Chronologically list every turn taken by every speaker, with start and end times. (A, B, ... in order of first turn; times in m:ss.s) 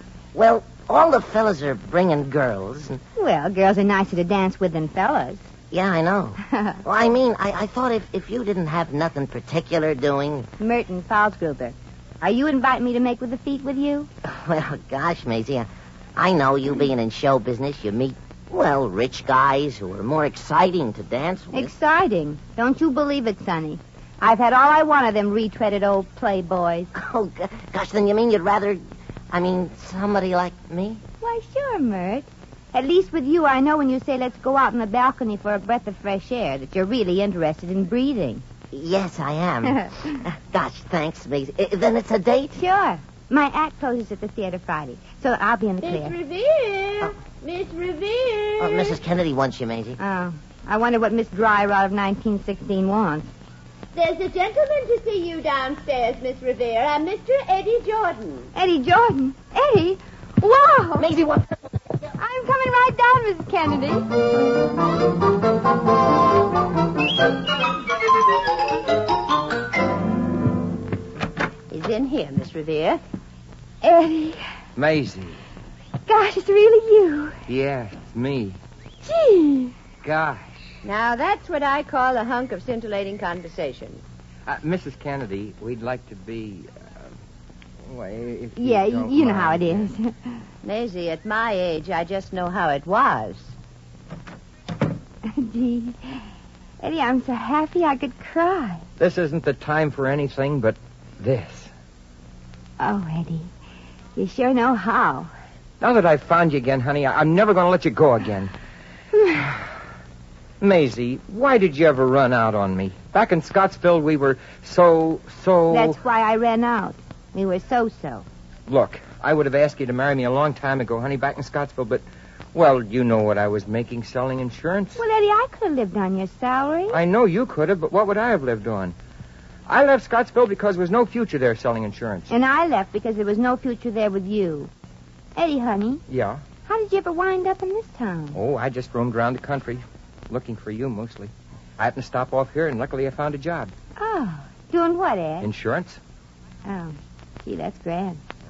0:00.3-0:03.0 A
0:03.2-0:05.5 B
0:05.7-0:10.5 A
0:06.4-0:06.8 B
0:10.6-0:14.1 B
0:14.2-0:21.7 A
0:21.5-0:26.9 B
0:26.9-0:31.0 A
0:31.2-0:38.4 B
0:38.7-0:42.6 A
0:39.7-0:40.1 B
0:42.5-0:46.2 B
0:45.8-0:48.9 C
0:48.6-0:50.0 A
0:50.0-0:53.3 B
0:53.9-0:58.5 C
0:58.5-1:01.1 B
1:01.0-1:01.7 A
1:02.2-1:04.0 B
1:11.7-1:13.0 C
1:13.8-1:14.4 B
1:14.8-1:15.4 D
1:16.1-1:17.4 B
1:17.5-1:18.6 D
1:19.0-1:19.7 B
1:20.0-1:20.8 D
1:20.8-1:24.0 C
1:24.5-1:27.1 D
1:27.9-1:29.9 D
1:28.6-1:30.4 B
1:30.6-1:33.6 C
1:35.2-1:36.2 B
1:36.8-1:38.8 B
1:39.0-1:41.7 D
1:42.8-1:43.5 B
1:44.2-1:45.3 B
1:45.8-1:48.5 D
1:49.2-1:49.4 B
1:50.6-1:56.0 D
1:55.7-1:58.2 B
1:58.7-2:05.0 D
2:05.0-2:07.0 B
2:06.9-2:09.0 D
2:09.7-2:12.3 D
2:12.3-2:14.7 B
2:15.4-2:18.4 B
2:16.1-2:16.5 D
2:18.4-2:23.7 D
2:24.0-2:25.5 B
2:25.4-2:26.0 D
2:26.6-2:28.2 B